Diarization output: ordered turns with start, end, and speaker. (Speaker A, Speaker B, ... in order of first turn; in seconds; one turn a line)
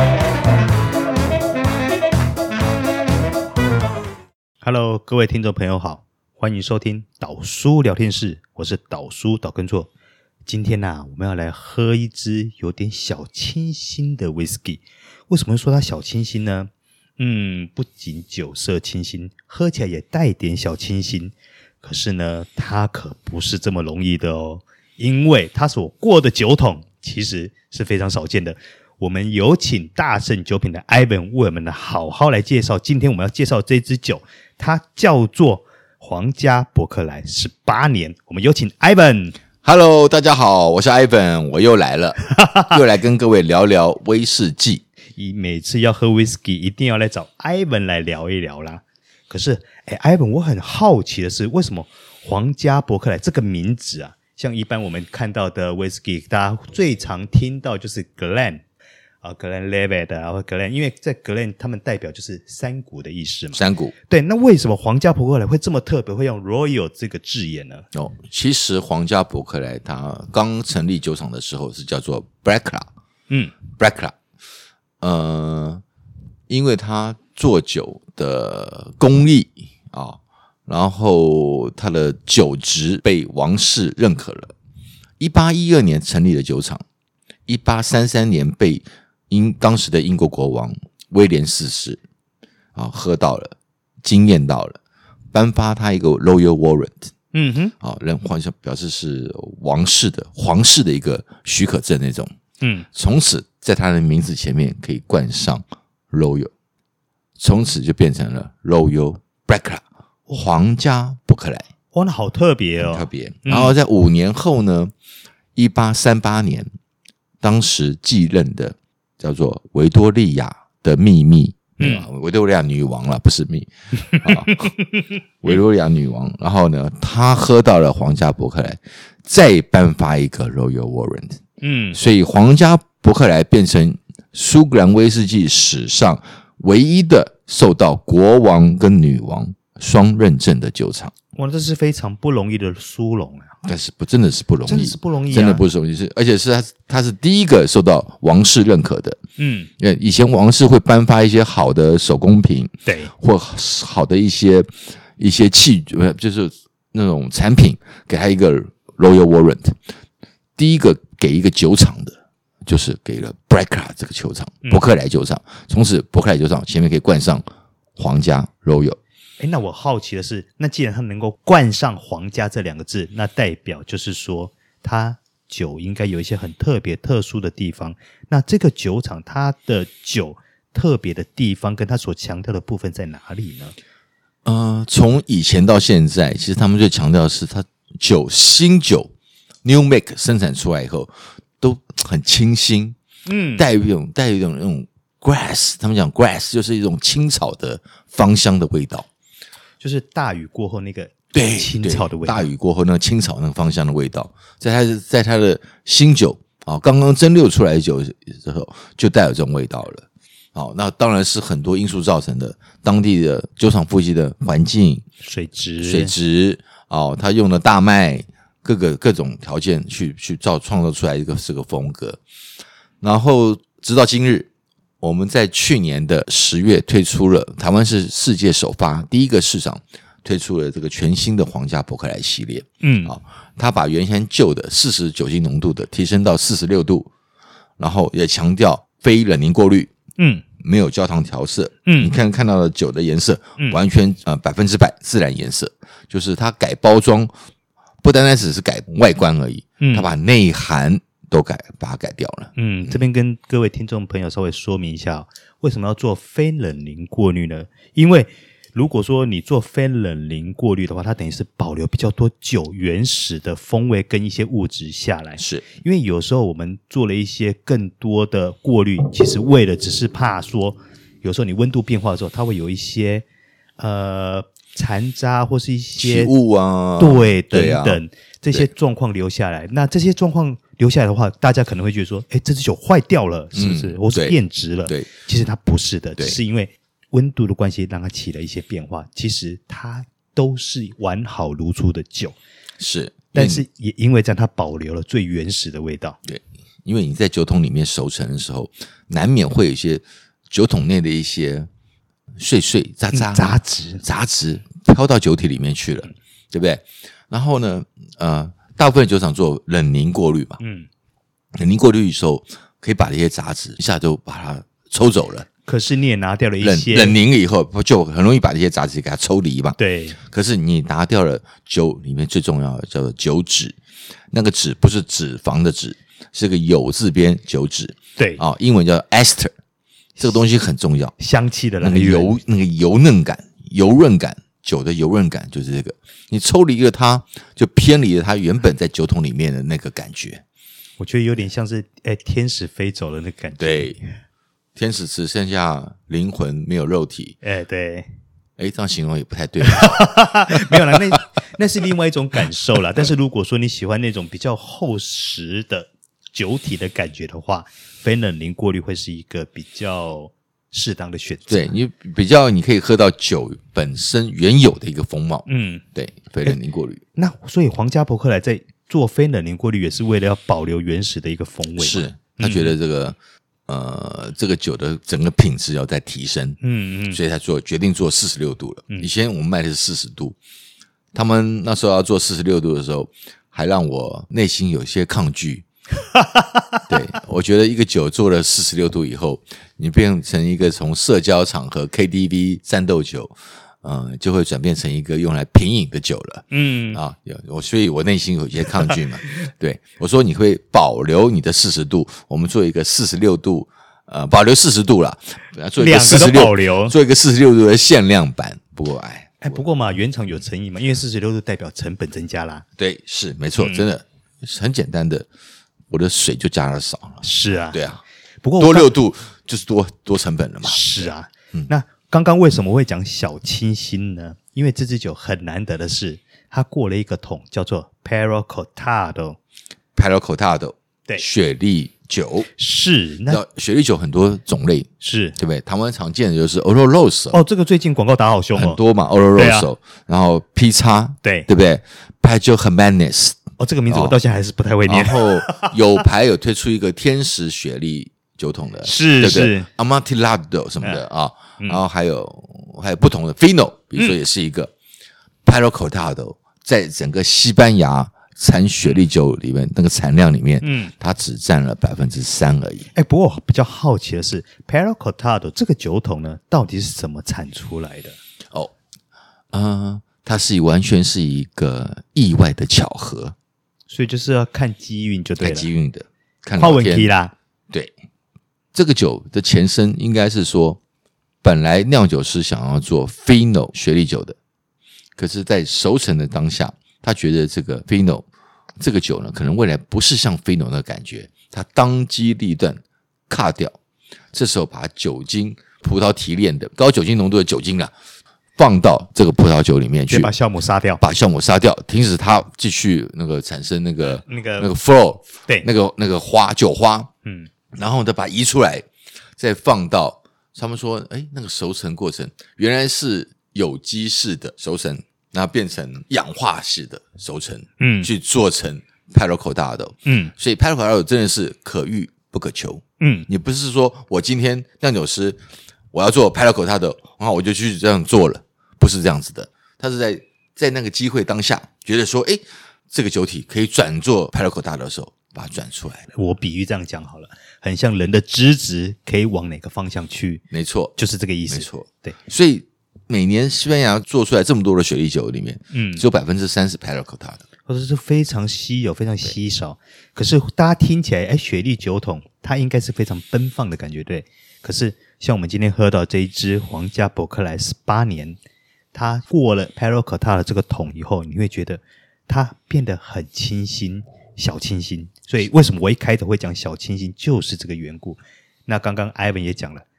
Speaker A: 4.6-9.9
Speaker A: 10.4-39.4
Speaker B: 39.6-44.8
Speaker A: 45.2-58.6
Speaker A: 59.2-67.9
Speaker B: 63.5-63.9
Speaker B: 67.9-72.9
Speaker A: 73.3-73.5
Speaker B: 73.8-74.1
Speaker B: 75.0-75.8
Speaker B: 76.5-84.5
Speaker B: 85.2-86.8
Speaker B: 87.5-92.0
Speaker B: 92.7-94.8
Speaker B: 95.3-97.1
Speaker A: 97.3-97.7
Speaker B: 97.8-102.3
Speaker A: 102.6-102.9
Speaker B: 102.9-106.5
Speaker B: 107.4-111.6
Speaker A: 111.9-113.7
Speaker B: 112.8-114.9
Speaker B: 115.5-116.7
Speaker B: 117.4-124.7
Speaker A: 121.8-122.1
Speaker A: 124.2-125.0
Speaker B: 125.4-131.4
Speaker A: 131.6-132.0
Speaker B: 131.9-141.1
Speaker A: 141.3-143.6
Speaker B: 143.6-149.2
Speaker A: 144.7-145.6
Speaker A: 149.4-149.7
Speaker B: 149.8-159.8
Speaker A: 152.8-153.1
Speaker B: 160.6-167.4
Speaker B: 168.0-169.0
Speaker A: 169.4-183.7
Speaker B: 184.4-189.1
Speaker B: 189.6-192.9
Speaker A: 193.2-193.6
Speaker B: 193.6-199.1
Speaker A: 199.8-202.5
Speaker B: 201.3-215.0
Speaker A: 215.2-216.1
Speaker B: 215.8-222.2
Speaker B: 223.0-224.5
Speaker B: 225.0-237.1
Speaker A: 232.8-233.1
Speaker B: 237.8-239.9
Speaker A: 240.2-240.4
Speaker B: 240.6-247.3
Speaker A: 241.8-242.1
Speaker B: 248.0-253.0
Speaker A: 249.8-250.1
Speaker A: 252.5-273.2
Speaker B: 265.4-265.6
Speaker A: 273.8-276.3
Speaker B: 276.0-278.7
Speaker A: 277.0-292.4
Speaker B: 283.5-285.1
Speaker B: 292.8-293.6
Speaker A: 293.3-296.2
Speaker B: 296.2-301.7
Speaker B: 302.4-310.6
Speaker A: 303.1-304.0
Speaker A: 310.6-310.9
Speaker B: 311.5-315.4
Speaker A: 315.6-317.2
Speaker B: 316.6-319.8
Speaker A: 319.8-320.2
Speaker B: 320.3-323.8
Speaker B: 324.3-329.5
Speaker A: 328.2-328.4
Speaker B: 330.2-331.1
Speaker A: 331.2-332.4
Speaker B: 331.8-340.4
Speaker A: 341.0-344.0
Speaker B: 343.6-344.0
Speaker B: 344.8-347.4
Speaker A: 347.4-348.1
Speaker B: 348.6-350.1
Speaker A: 349.6-361.7
Speaker B: 361.5-367.0
Speaker A: 365.4-365.8
Speaker A: 367.1-372.7
Speaker B: 371.8-373.1
Speaker B: 373.7-376.6
Speaker A: 376.6-377.2
Speaker B: 377.1-380.4
Speaker B: 381.1-385.6
Speaker A: 386.1-386.8
Speaker B: 386.9-409.6
Speaker A: 396.5-397.0
Speaker A: 405.8-406.9
Speaker A: 409.4-412.6
Speaker B: 412.8-415.3
Speaker A: 413.6-413.9
Speaker B: 415.9-418.0
Speaker A: 417.2-417.8
Speaker A: 418.4-418.9
Speaker B: 418.6-421.7
Speaker A: 420.6-429.4
Speaker B: 429.9-432.5
Speaker A: 432.6-433.4
Speaker B: 433.3-437.4
Speaker A: 435.0-435.4
Speaker A: 437.3-438.8
Speaker B: 438.5-444.2
Speaker A: 439.3-439.7
Speaker A: 443.6-445.7
Speaker B: 444.9-454.7
Speaker A: 448.8-449.7
Speaker B: 455.4-462.9
Speaker A: 460.6-460.9
Speaker A: 462.9-468.2
Speaker B: 469.5-473.3
Speaker A: 473.9-475.7
Speaker B: 475.4-477.1
Speaker A: 476.6-477.3
Speaker B: 478.7-480.8
Speaker B: 481.4-484.4
Speaker B: 485.2-488.2
Speaker B: 488.8-493.8
Speaker B: 494.3-497.9
Speaker B: 498.6-500.3
Speaker A: 500.1-501.0
Speaker B: 501.0-507.1
Speaker A: 504.1-504.7
Speaker A: 507.2-507.5
Speaker B: 507.7-508.9
Speaker B: 509.4-525.4
Speaker A: 517.8-518.1
Speaker A: 520.0-520.3
Speaker A: 523.0-523.3
Speaker B: 525.9-536.1
Speaker A: 536.1-540.4
Speaker B: 540.5-540.9
Speaker A: 541.0-542.1
Speaker B: 541.5-547.4
Speaker A: 545.7-546.0
Speaker A: 547.7-558.4
Speaker A: 558.9-569.8